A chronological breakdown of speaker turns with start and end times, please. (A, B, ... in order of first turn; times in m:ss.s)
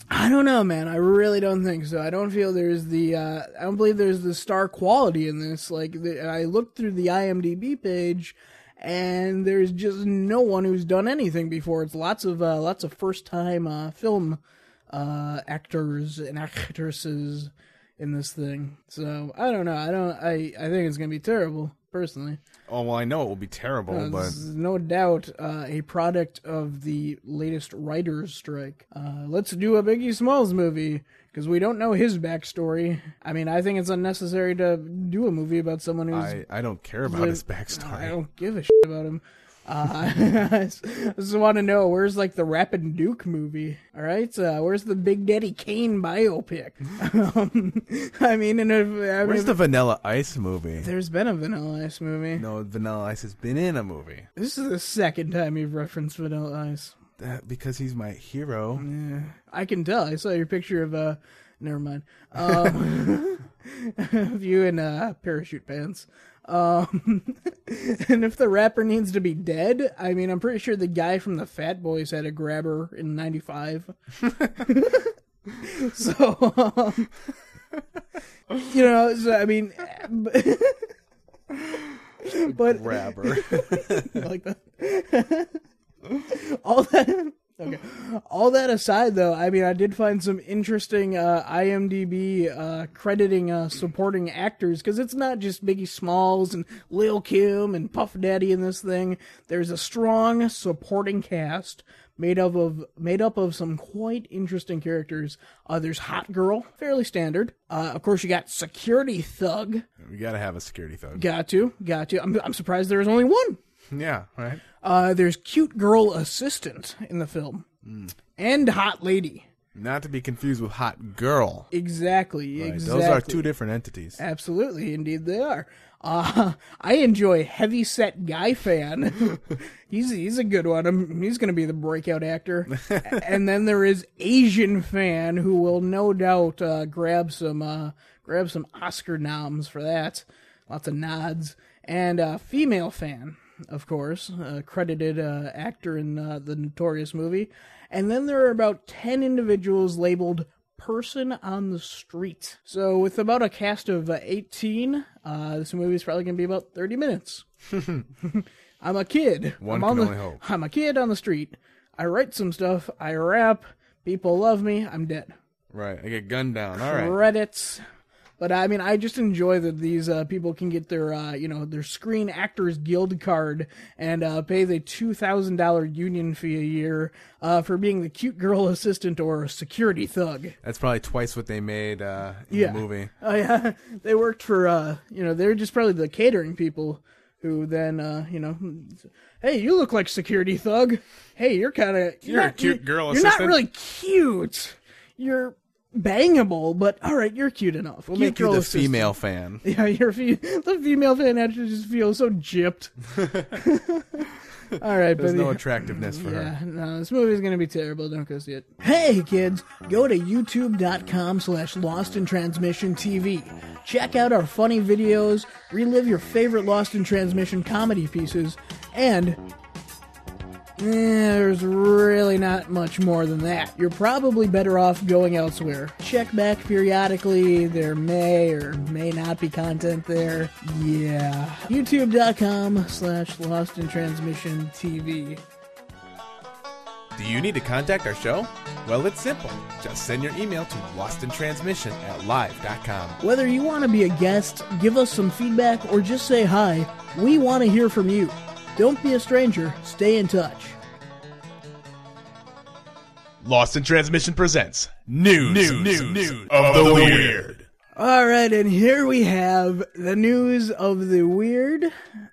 0:00.1-0:22.4 A
0:22.7-0:24.4 B
0:23.9-0:36.4 A
0:36.1-0:38.2 B
0:37.0-0:49.6 A
0:49.2-0:50.9 B
0:50.8-0:52.5 A
0:52.4-0:54.3 B
0:54.4-0:57.0 A
0:57.2-0:58.9 B
0:58.8-1:17.2 A
1:18.6-1:20.9 A
1:21.5-1:49.8 A
1:22.5-1:24.2 B
1:50.0-1:51.2 B
1:51.2-1:53.6 A
1:53.9-1:54.6 B
1:54.8-1:57.7 A
1:57.8-1:58.1 B
1:58.4-1:59.5 A
1:59.7-2:01.7 B
2:01.7-2:03.5 A
2:02.6-2:04.2 B
2:04.2-2:37.5 A
2:38.2-2:45.4 A
2:39.6-2:40.4 B
2:45.7-2:47.2 B
2:46.8-2:47.8 A
2:48.4-3:00.6 A
3:00.6-3:03.1 B
3:02.5-3:39.4 A
3:12.2-3:13.6 B
3:18.1-3:19.6 B
3:25.2-3:26.5 B
3:40.8-3:55.4 A
3:57.2-4:03.2 B
4:03.2-4:10.8 A
4:13.4-4:17.7 B
4:15.4-4:17.4 A
4:18.0-4:21.9 A